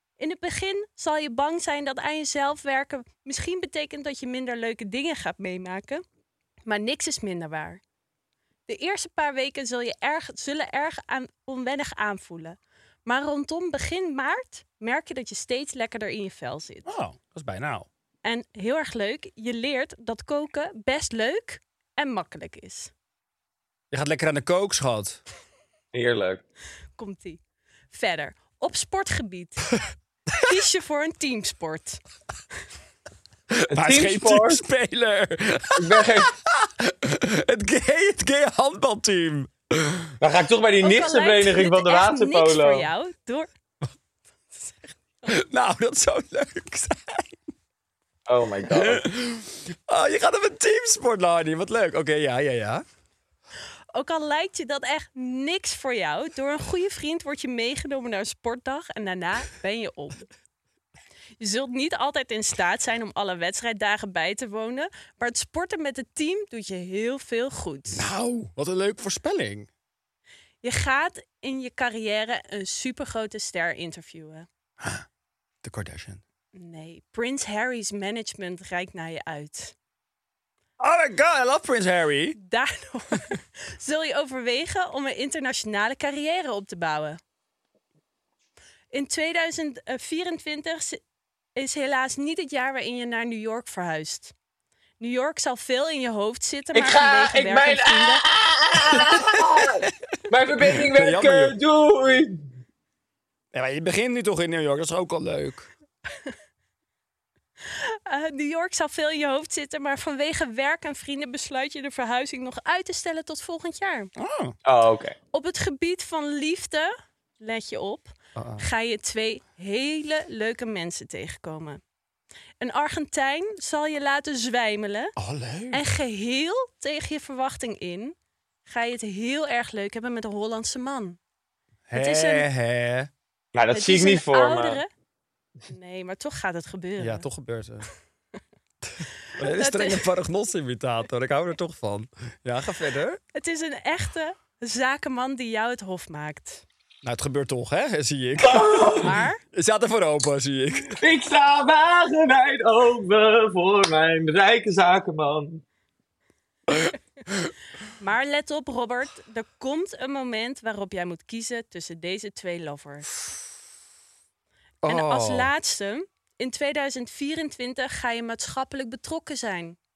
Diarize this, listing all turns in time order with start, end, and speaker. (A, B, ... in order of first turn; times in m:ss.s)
0:00.2-0:06.0 A
0:06.7-0:07.8 A
0:08.7-0:16.9 A
0:16.9-0:17.9 B
0:18.2-0:22.9 A
0:23.9-0:25.2 B
0:25.9-0:26.4 C
0:27.0-0:27.4 A
0:27.9-0:29.7 A
0:30.4-0:32.0 A
0:33.6-0:40.1 B
0:33.7-0:34.6 C
0:35.8-0:36.3 C
0:40.2-0:42.9 C
0:40.8-0:43.5 A
0:44.5-0:44.9 A
0:45.3-0:47.4 B
0:48.3-0:49.0 C
0:48.7-0:52.8 B
0:53.9-1:00.2 A
1:01.4-1:08.1 A
1:07.9-1:09.7 B
1:10.6-1:14.5 A
1:15.6-1:16.2 B
1:16.6-1:19.8 A
1:20.8-1:22.4 B
1:22.4-1:27.2 A
1:28.9-1:31.0 A
1:31.6-1:34.3 A
1:35.0-1:38.2 A
1:36.7-1:42.5 C
1:40.6-1:41.6 B
1:43.5-1:45.7 B
1:47.7-1:54.1 A
1:54.2-1:54.6 B
1:54.6-1:55.2 C
1:55.3-2:01.8 A
1:58.4-1:58.6 B
2:02.6-2:05.2 A
2:05.2-2:05.8 B
2:05.7-2:08.2 A
2:08.7-2:11.2 A
2:11.9-2:13.1 B
2:11.9-2:12.5 A
2:13.5-2:14.8 C
2:13.7-2:14.9 A
2:15.7-2:17.3 A
2:17.0-2:17.9 B
2:19.0-2:23.2 B
2:19.4-2:20.1 A
2:23.3-2:26.6 A
2:27.0-2:29.0 B
2:28.4-2:29.1 C
2:29.0-2:29.4 A
2:29.5-2:31.0 B
2:30.9-2:35.6 C
2:38.0-2:43.1 A
2:44.8-2:49.8 A
2:44.8-2:45.5 B